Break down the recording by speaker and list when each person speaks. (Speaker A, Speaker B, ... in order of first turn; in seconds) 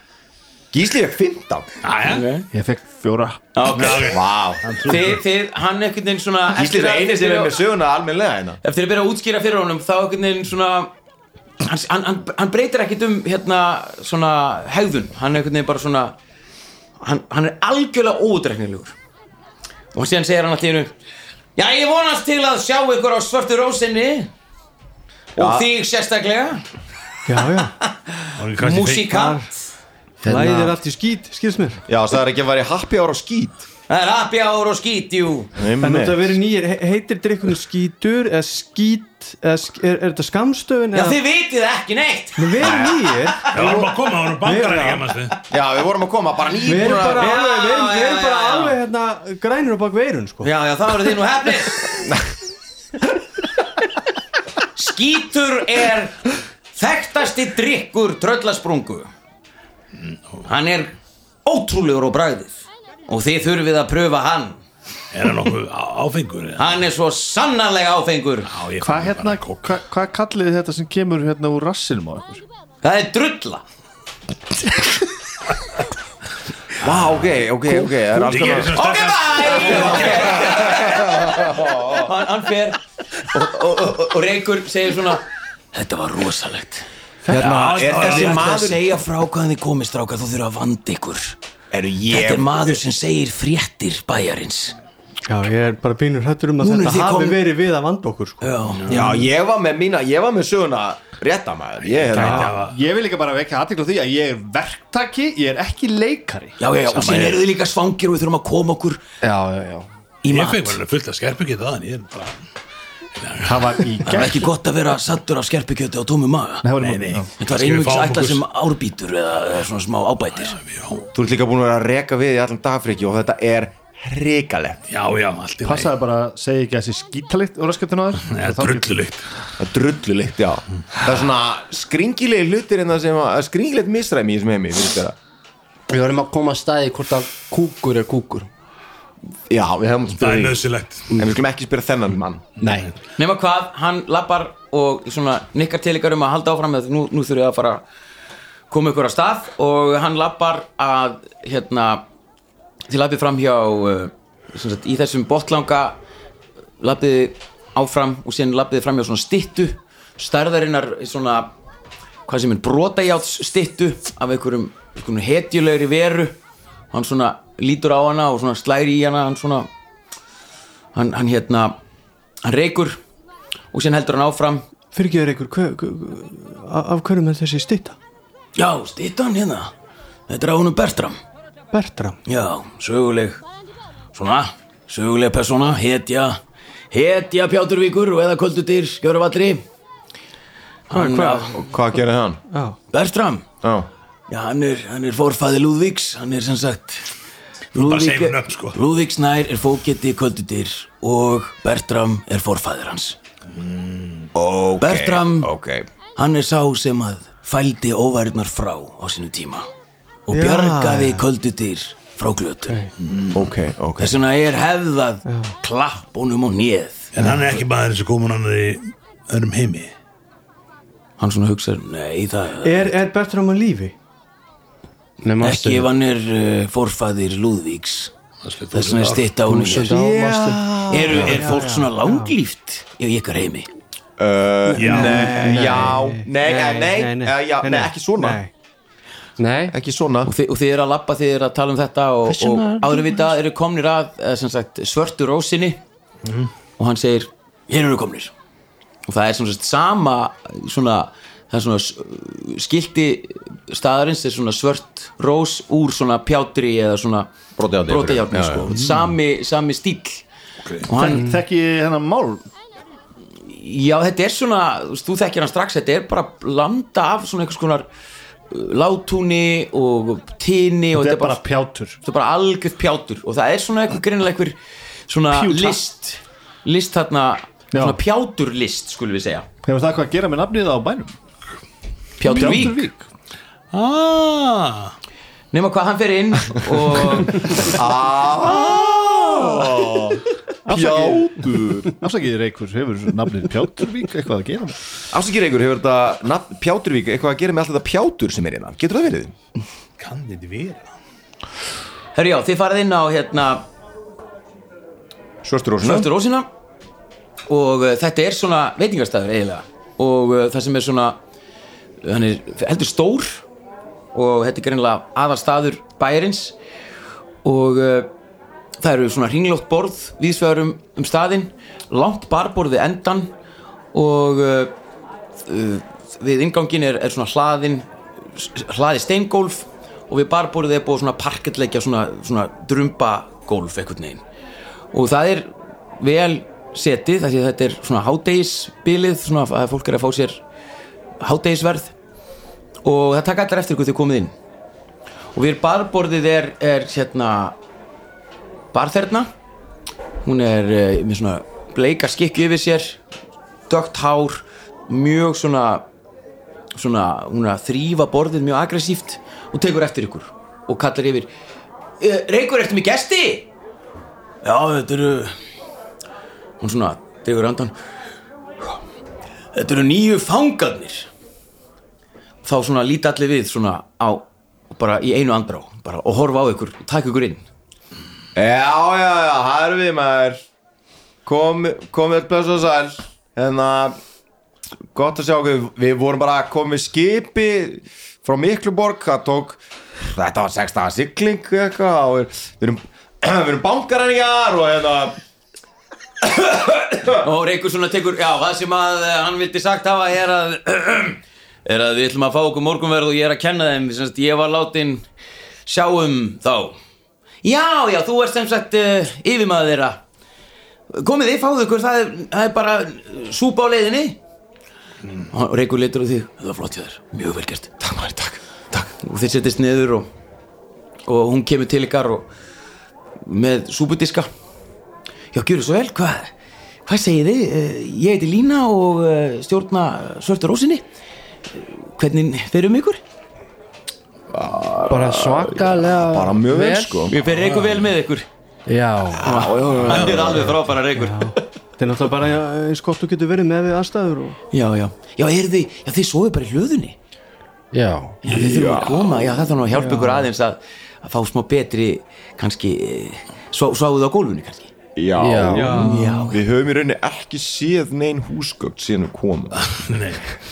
Speaker A: 0.7-1.7, 4.0-4.6, 6.5-8.6, 25.4-25.7, 31.9-33.7, 35.6-36.4, 42.6-43.9, 45.5-47.4, 52.0-52.2, 76.8-78.8, 80.1-82.1, 87.3-88.9, 91.7-92.8, 98.9-102.6, 121.1-124.8, 129.6-135.2, 139.5-142.4, 191.5-192.4, 193.6-193.9, 204.3-205.9, 213.3-214.1, 230.7-231.2, 234.2-238.4, 239.7-240.3, 257.6-258.7, 287.6-292.0, 295.1-299.4, 305.4-306.1, 378.4-380.4, 381.2-384.0, 384.9-395.2, 396.3-397.1, 417.8-418.9, 434.3-437.1, 439.2-440.6, 448.3-449.6, 455.0-459.8
Speaker B: 1.8-2.3, 3.7-5.2, 28.4-29.2, 43.5-45.3, 65.1-66.7, 68.5-69.7, 76.8-77.4, 78.2-80.6, 87.3-88.7, 98.8-99.2, 101.9-102.8, 106.9-107.4, 110.3-112.5, 113.2-113.9, 116.8-118.4, 120.4-121.1, 124.9-126.0, 128.3-129.3, 140.2-141.1, 142.6-142.9, 197.7-198.8, 203.6-204.3, 213.0-213.5, 217.1-219.9, 228.4-229.3, 231.2-231.4, 234.7-235.3, 258.8-259.1, 282.4-282.7, 283.7-284.9, 300.0-300.9, 437.3-437.8, 439.9-440.3, 459.6-460.3
Speaker C: 2.0-2.5, 3.5-7.6, 8.6-10.9, 11.6-16.2, 17.0-18.9, 19.9-20.9, 21.6-24.3, 25.4-26.6, 28.1-29.4, 33.9-35.5, 40.9-42.8, 43.4-43.8, 46.9-48.8, 50.4-51.9, 54.8-56.2, 56.8-59.1, 60.5-60.9, 61.5-64.6, 66.6-68.5, 72.8-73.6, 78.7-86.9, 87.9-91.4, 92.1-94.8, 96.6-97.4, 98.4-98.9, 106.6-109.0, 110.2-110.8, 114.0-116.7, 117.4-120.6, 143.2-147.8, 148.7-152.0, 152.9-156.0, 156.8-161.5, 162.3-166.4, 166.9-169.7, 170.9-171.8, 172.4-173.0, 173.7-174.7, 178.6-179.7, 180.3-181.2, 182.3-183.4, 184.1-186.4, 186.9-189.6, 190.9-191.5, 192.9-193.5, 194.3-197.1, 197.8-203.2, 204.8-205.5, 206.2-209.7, 210.3-212.8, 214.0-217.1, 221.2-222.9, 225.4-228.1, 228.7-230.2, 230.9-233.7, 240.2-245.8, 246.8-248.3, 249.1-257.3, 257.9-260.2, 260.9-261.3, 263.4-267.9, 268.5-271.4, 272.0-274.6, 275.1-279.5, 282.2-282.9, 285.5-287.7, 302.1-303.6, 305.8-306.5, 307.5-311.2, 312.0-313.4, 314.1-316.6, 317.4-318.1, 318.8-323.3, 323.9-324.7, 325.4-334.2, 334.9-340.4, 341.2-341.9, 342.8-344.3, 345.4-347.6, 348.7-349.3, 350.2-353.0, 353.7-355.9, 356.7-361.3, 362.0-363.5, 364.4-365.4, 366.6-367.8, 369.5-371.1, 372.4-377.4, 397.2-405.1, 405.7-406.8, 407.4-410.0, 410.9-414.2, 415.3-417.7, 419.0-420.1, 421.1-422.3, 423.2-424.3, 425.3-426.3, 426.9-430.8, 431.5-433.0, 437.1-438.3, 439.2-441.4, 444.5-447.0, 448.2-454.7, 455.7-456.4
Speaker D: 2.5-3.4, 68.8-72.4, 87.3-87.7, 102.5-106.6, 113.4-114.5, 116.6-117.3, 125.6-129.1, 242.4-242.8, 260.9-262.5, 270.9-272.0, 275.3-275.8, 277.7-278.0, 279.6-281.2, 282.2-283.1, 290.7-291.1, 292.0-294.8
Speaker E: 27.3-27.8, 29.1-29.5, 30.2-31.8, 35.8-41.2, 42.4-45.2, 46.6-50.5, 87.3-87.6, 95.3-99.1, 102.1-102.5, 174.9-178.0, 181.7-182.2, 190.9-191.5, 192.5-192.8, 210.3-211.2, 215.3-215.5, 222.6-223.9, 229.6-232.3, 234.8-238.5, 290.7-291.2, 441.0-444.4, 449.7-450.2, 455.5-456.1
Speaker F: 30.2-30.8, 109.2-109.9, 135.9-138.5, 142.6-142.9, 225.2-225.9, 229.5-230.5, 235.4-235.9, 239.4-239.8, 434.9-437.1, 438.7-439.5, 447.7-448.2, 455.2-456.2